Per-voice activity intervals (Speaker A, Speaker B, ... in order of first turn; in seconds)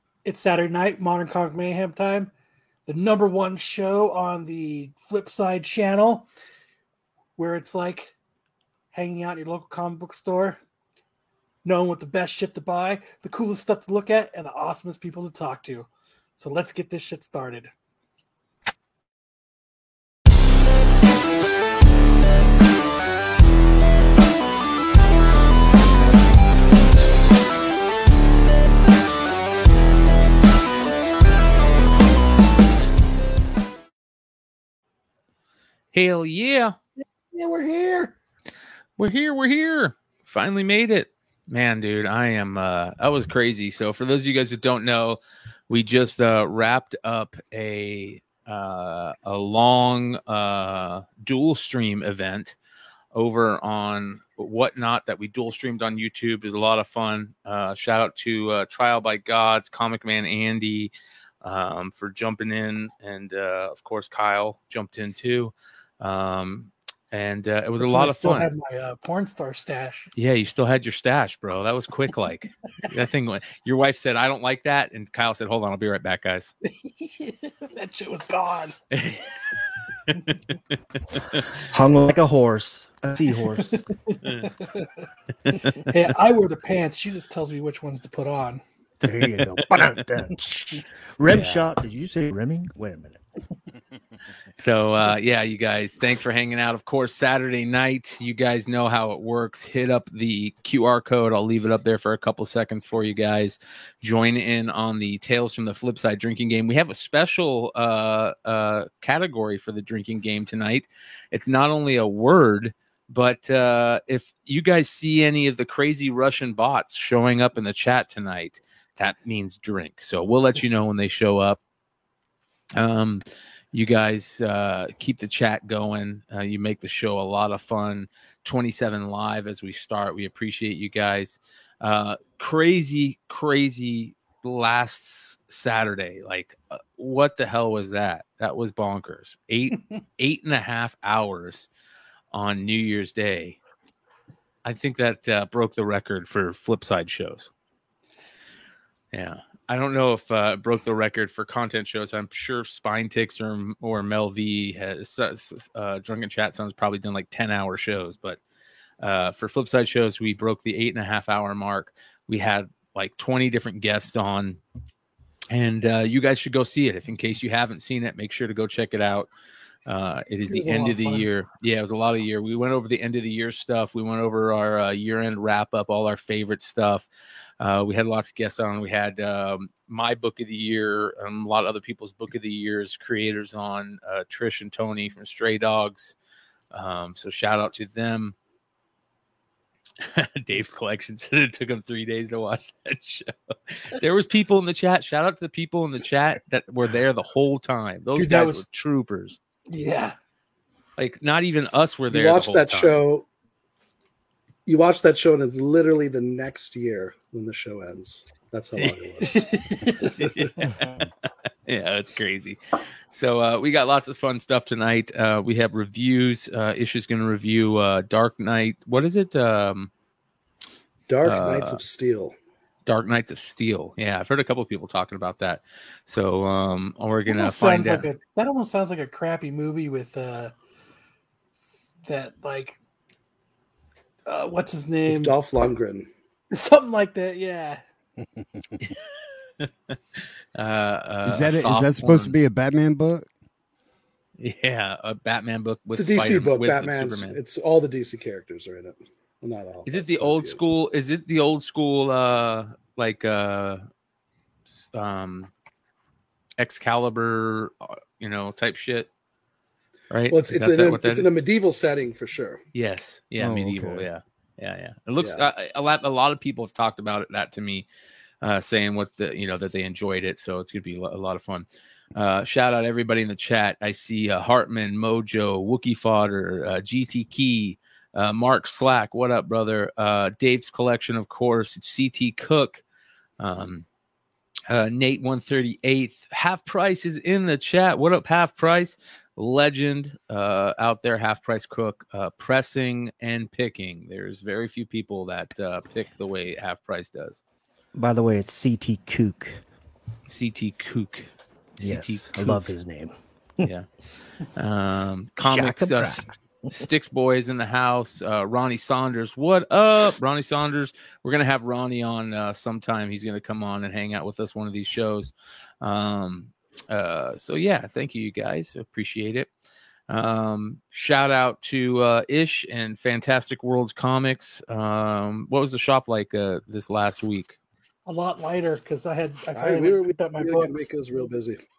Speaker A: 0.2-2.3, 2.9-6.3, 7.4-8.1, 8.9-10.6, 11.7-17.7, 37.3-38.1, 67.8-70.1, 76.8-78.8, 84.1-84.9, 85.8-88.6, 170.5-171.3, 198.1-198.6, 199.7-200.2, 209.2-210.2, 227.3-230.6, 232.1-232.8, 234.3-235.3, 236.5-237.8, 328.1-330.9
Speaker B: 35.9-36.8, 39.0-52.6, 53.1-68.5, 70.2-76.5, 78.9-79.3, 80.1-80.5, 81.2-81.5, 84.2-84.5, 89.1-90.0, 91.3-91.7, 94.6-121.6, 122.8-141.7, 142.3-143.6, 144.7-147.5, 149.1-158.4, 159.0-164.6, 165.5-169.3, 169.9-177.1, 177.6-186.2, 186.7-188.3, 190.0-199.4, 201.0-203.0, 208.8-209.1, 210.2-211.0, 211.7-212.6, 213.1-219.9, 221.2-221.8, 222.9-228.1, 239.6-242.4, 244.4-247.4, 249.9-253.8, 254.7-255.5, 256.6-259.1, 260.1-261.3, 262.8-267.9, 268.4-282.8, 283.4-283.9, 284.7-297.4, 300.3-301.3, 301.8-302.6, 304.6-319.5, 320.1-327.6
Speaker C: 81.6-83.8, 89.0-93.2, 210.7-211.1, 297.9-299.6, 301.8-303.7, 305.4-306.9
Speaker D: 202.1-203.3, 204.7-209.4, 210.2-210.5, 221.1-222.3, 235.1-236.1, 245.9-250.6, 260.3-262.6, 265.2-265.5, 329.6-331.6
Speaker E: 241.3-243.3, 263.4-264.1